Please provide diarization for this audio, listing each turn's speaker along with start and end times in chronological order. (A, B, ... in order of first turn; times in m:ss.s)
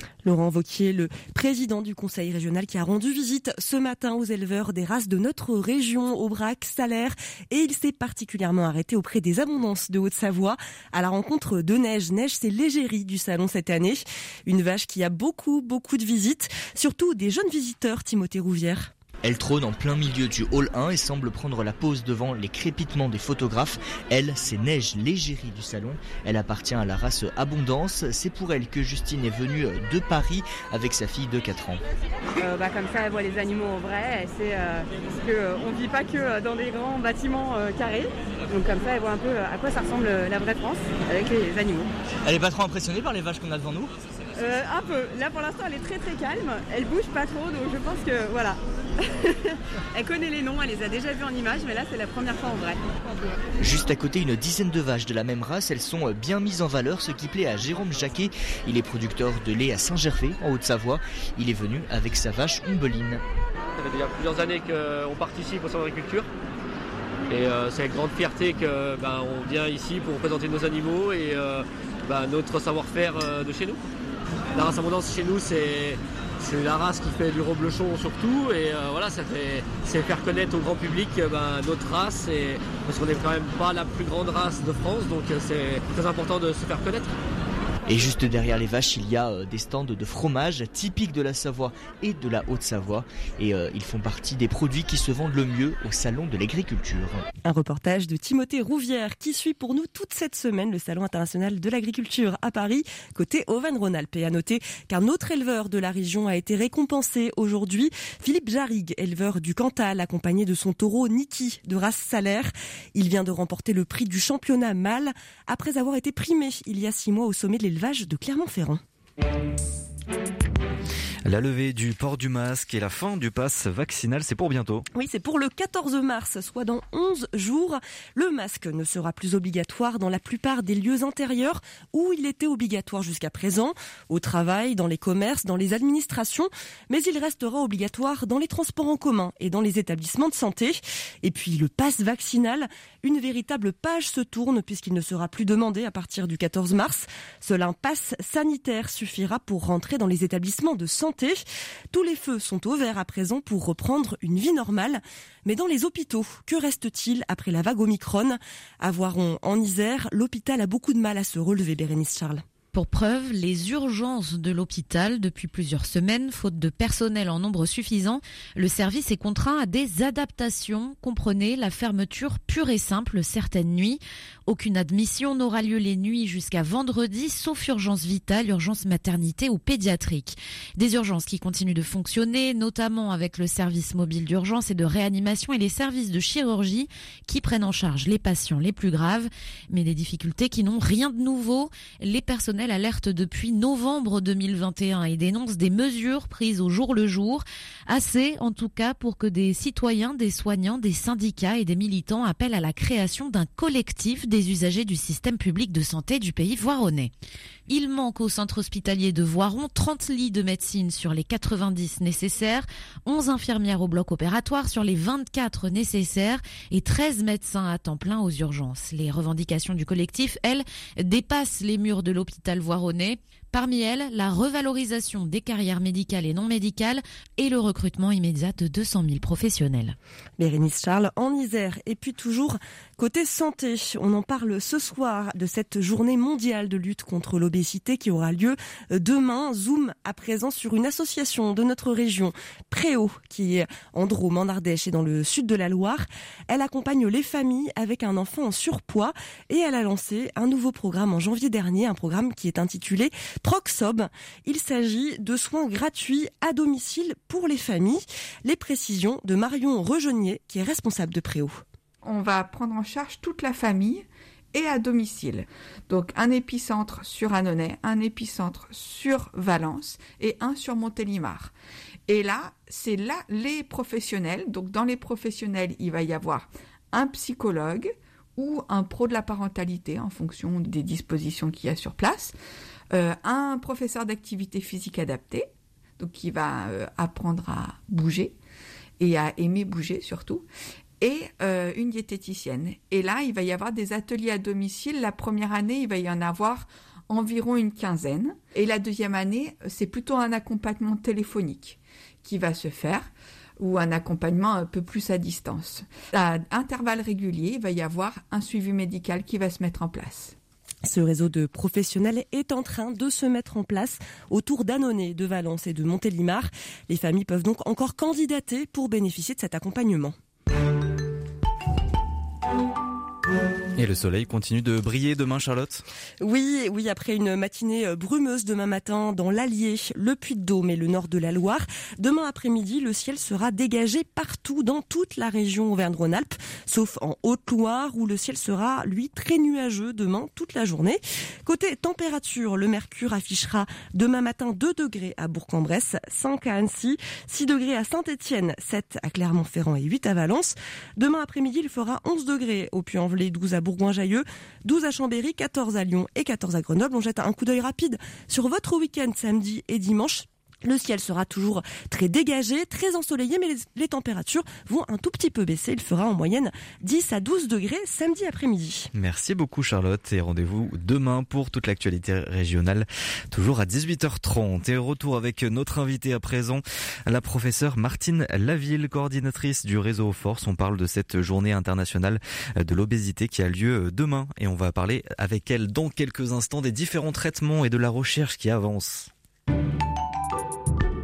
0:00.2-0:18.9 A
0:19.2-0:31.8 B
0:32.4-0:41.9 C
0:42.2-0:43.9 B
0:44.4-0:52.8 C
0:53.6-1:03.2 B
1:03.8-1:06.3 D
1:07.3-1:13.8 D
1:14.5-1:27.1 D
1:27.9-1:37.2 B
1:37.4-1:58.8 A
2:01.2-2:04.8 E
2:04.9-2:42.4 A
2:42.7-3:27.1 F
3:27.7-3:50.0 F
3:50.4-4:21.6 A
4:22.0-4:31.5 G
4:32.1-4:42.3 G
4:42.9-4:45.5 G
4:46.0-4:48.3 G
4:49.0-4:50.4 G
4:51.0-5:10.3 G
5:10.8-5:20.2 A
5:23.8-5:25.8 E
5:26.2-6:08.9 A
6:08.9-6:29.1 E